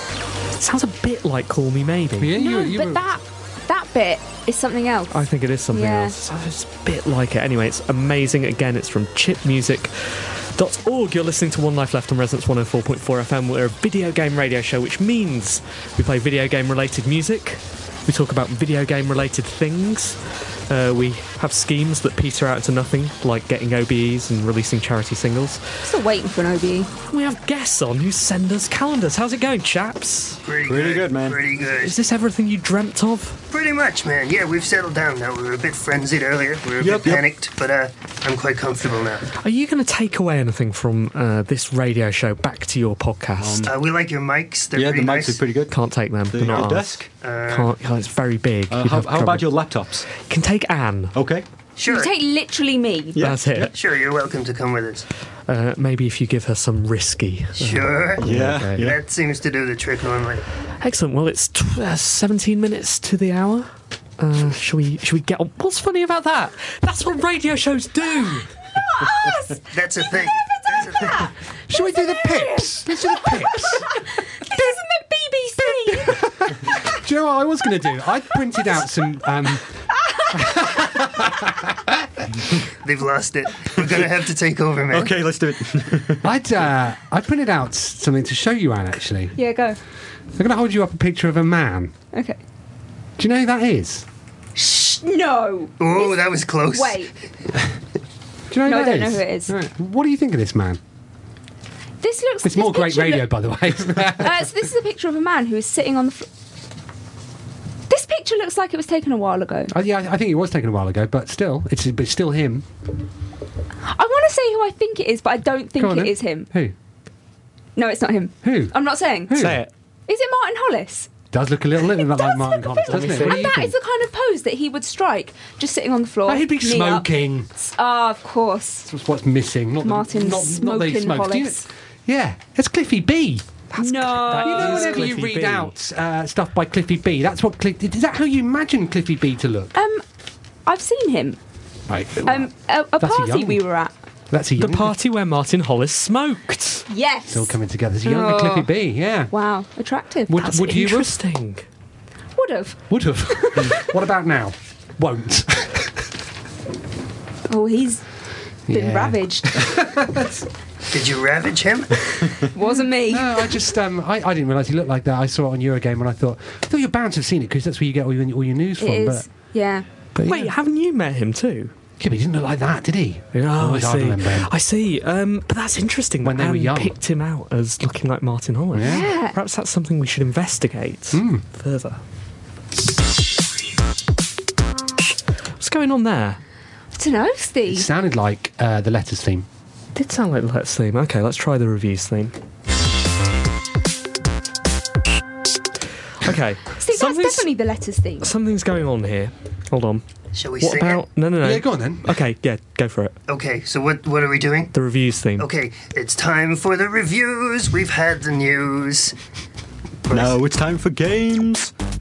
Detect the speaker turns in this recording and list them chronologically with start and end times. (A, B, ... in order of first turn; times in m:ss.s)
0:00.6-0:02.3 A
0:02.2-0:03.0 B
0:02.4-0:05.1 C
0:05.1-0:25.6 A
0:05.7-0:06.1 C
0:25.8-0:26.9 C
0:27.1-0:30.4 A
0:30.4-0:31.9 D
0:30.6-0:31.4 E
0:31.8-0:33.4 A
0:33.5-0:39.3 D
0:36.8-0:37.2 E
0:39.4-0:43.7 A
0:43.4-0:43.7 E
0:43.6-0:45.4 D
0:44.7-0:45.8 E
0:45.7-0:49.6 A
0:46.3-0:47.1 E
0:47.2-0:47.7 D
0:48.7-0:50.1 E
0:50.1-0:51.1 A
0:51.1-0:51.4 E
0:51.8-0:52.1 D
0:51.8-0:53.2 C
0:53.1-0:53.7 E
0:53.2-0:53.7 A
0:53.7-0:55.0 D
0:55.5-0:58.9 A
0:57.6-1:00.4 D
0:58.2-0:59.0 E
1:00.8-1:08.5 A
1:08.7-1:16.2 C
1:09.7-1:11.3 D
1:11.7-1:13.9 B
1:15.8-1:19.7 B
1:20.3-1:22.2 B
1:22.8-1:25.2 D
1:23.8-1:24.0 E
1:24.9-1:26.3 E
1:26.2-1:29.4 B
1:29.4-1:29.8 C
1:30.3-1:31.9 B
1:32.1-1:32.4 C
1:33.2-1:34.0 B
1:34.6-1:37.1 C
1:35.8-1:37.1 D
1:38.5-1:40.8 B
1:38.6-1:39.6 C
1:42.0-1:43.3 C
1:42.4-1:44.5 B
1:43.9-1:46.3 C
1:47.9-1:49.7 C
1:49.7-1:52.7 B
1:53.8-1:56.5 C
1:55.8-1:56.7 B
1:57.8-1:59.4 C
1:58.4-1:59.6 B
1:59.3-1:59.7 A
2:00.1-2:01.1 C
2:01.3-2:03.7 B
2:02.0-2:08.9 C
2:02.9-2:03.6 A
2:06.2-2:07.5 B
2:08.9-2:13.5 B
2:09.8-2:11.7 C
2:13.7-2:15.7 A
2:13.7-2:15.1 C
2:14.3-2:19.7 B
2:19.7-2:20.0 C
2:20.6-2:21.4 C
2:21.9-2:23.6 B
2:22.2-2:23.9 C
2:24.3-2:24.9 B
2:24.6-2:26.9 A
2:26.9-2:28.7 C
2:27.3-2:29.3 B
2:29.3-2:30.4 C
2:30.3-2:31.1 B
2:30.4-2:31.6 A
2:32.4-2:33.8 C
2:32.9-2:35.9 B
2:37.5-2:38.0 C
2:38.7-2:40.5 B
2:38.7-2:39.7 C
2:40.9-2:42.1 D
2:42.4-2:43.6 C
2:43.0-2:49.3 B
2:48.8-2:49.8 C
2:50.1-2:50.5 B
2:50.2-2:51.7 A
2:52.0-2:54.5 B
2:53.3-3:02.0 A
2:56.2-2:57.0 B
2:58.7-2:59.1 B
2:58.8-2:59.4 C
3:01.1-3:01.4 B
3:05.6-3:06.4 A
3:06.9-3:07.9 C
3:07.7-3:09.5 B
3:09.9-3:12.3 A
3:16.2-3:17.5 A
3:16.8-3:18.3 C
3:18.2-3:20.0 A
3:20.3-3:21.0 D
3:20.6-3:23.2 A
3:21.4-3:22.2 B
3:23.3-3:24.7 D
3:24.7-3:25.5 A
3:25.4-3:29.1 D
3:30.1-3:30.4 D
3:30.1-3:31.7 E